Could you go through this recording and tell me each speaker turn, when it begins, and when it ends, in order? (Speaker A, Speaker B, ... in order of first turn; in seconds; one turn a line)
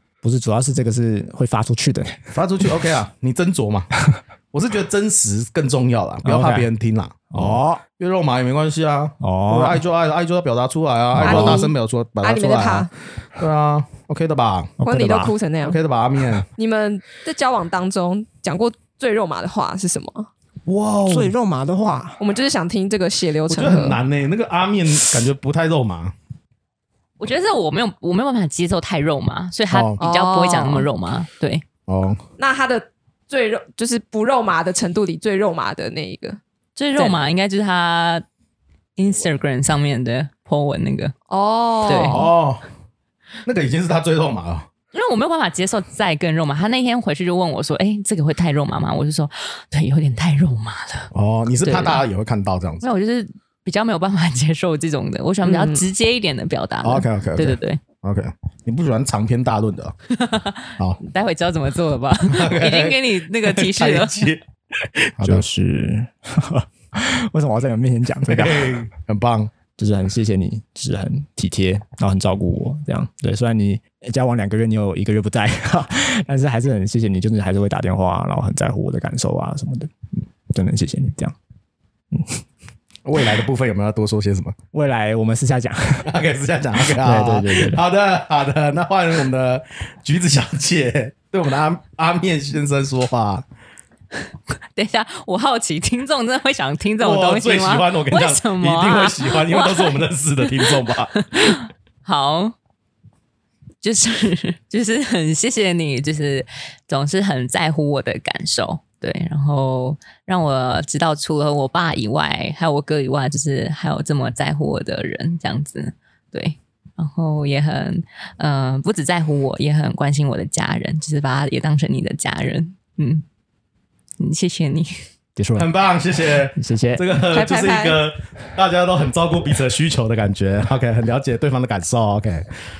Speaker A: 0.2-2.3
Speaker B: 2.3-3.9
Speaker B: 4.5-14.8
Speaker A: 6.2-6.7
Speaker A: 7.3-7.8
Speaker A: 9.2-9.8
Speaker A: 11.1-11.7
Speaker C: 11.2-12.9
Speaker A: 14.8-15.3
Speaker C: 14.8-15.8
Speaker B: 15.6-16.5
Speaker C: 16.6-20.3
Speaker B: 20.7-21.3
Speaker A: 21.1-22.2
Speaker C: 22.2-24.0
Speaker B: 23.5-26.1
Speaker D: 27.2-31.6
Speaker B: 29.7-30.0
Speaker C: 30.0-30.9
Speaker B: 31.9-32.2
Speaker C: 32.4-36.4
Speaker D: 36.8-38.2
Speaker C: 37.0-37.2
Speaker D: 39.0-41.1
Speaker C: 41.3-42.3
Speaker D: 41.8-42.2
Speaker B: 41.9-42.6
Speaker B: 43.4-44.7
Speaker D: 44.9-52.0
Speaker B: 51.1-52.9
Speaker D: 52.8-57.8
Speaker C: 55.4-55.8
Speaker B: 56.8-59.9
Speaker D: 60.1-64.3
Speaker B: 62.3-65.4
Speaker A: 65.2-68.8
Speaker B: 68.2-69.5
Speaker A: 69.8-79.9
Speaker A: 80.5-81.3
Speaker A: 82.1-82.4
Speaker B: 83.0-84.5
Speaker A: 84.7-86.1
Speaker B: 86.0-93.4
Speaker A: 86.8-87.8
Speaker D: 94.5-102.5
Speaker B: 97.0-101.2
Speaker D: 103.8-123.2
Speaker D: 124.2-125.0
Speaker A: 125.3-125.7
Speaker B: 125.6-132.5
Speaker A: 126.5-127.1
Speaker C: 127.3-128.0